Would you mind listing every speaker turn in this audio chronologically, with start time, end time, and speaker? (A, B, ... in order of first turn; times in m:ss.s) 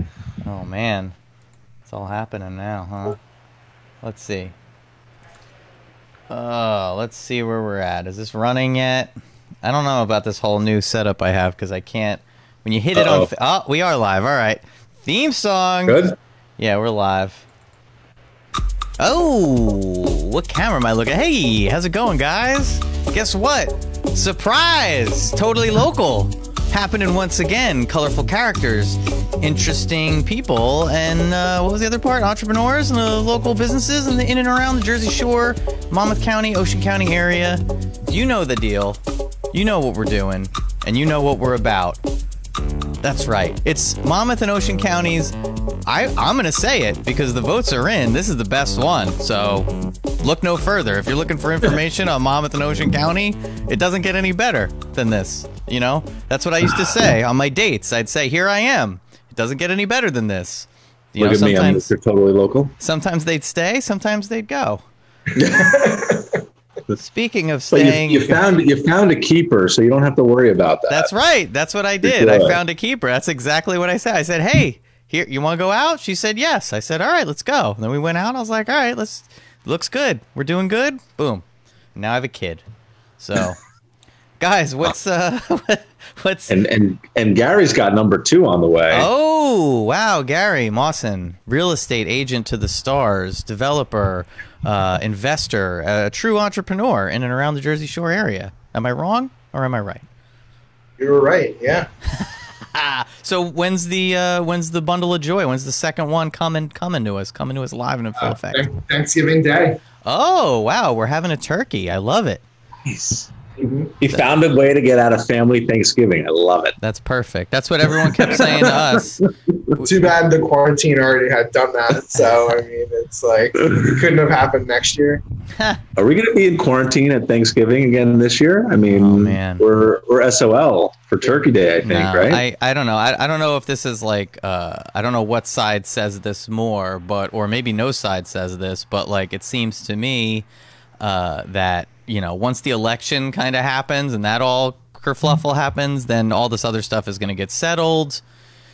0:00.4-0:01.2 A
0:01.8-0:03.2 A
0:04.0-0:04.5 A
0:06.3-0:09.1 A
0:09.6-0:16.0 A
0:12.9-0:13.3 B
0:15.8-0:16.2 B
0:16.6-0:17.4 A
0:19.0-0:39.0 A
0:39.5-0:42.0 A
0:43.0-0:45.3 A
0:45.9-0:49.7 A
0:50.2-1:01.9 A
1:01.2-1:02.7 B
1:02.8-1:04.8 A
1:05.3-1:05.9 B
1:05.4-1:06.4 C
1:07.0-1:08.4 A
1:07.7-1:11.1 B
1:10.9-1:21.4 A
1:12.0-1:12.6 B
1:22.0-1:22.6 A
1:23.2-1:23.6 A
1:24.4-1:26.5 A
1:26.5-1:29.1 B
1:28.9-1:40.0 A
1:41.0-1:41.9 C
1:42.1-1:48.7 A
1:48.2-1:49.8 C
1:50.0-1:52.4 A
1:52.8-1:53.3 B
1:53.6-1:53.9 C
1:54.0-1:56.8 B
1:56.8-1:59.2 A
1:57.9-1:59.8 B
1:59.8-2:05.2 C
2:06.0-2:12.4 B
2:08.9-2:09.6 A
2:11.8-2:20.4 A
2:21.0-2:28.2 A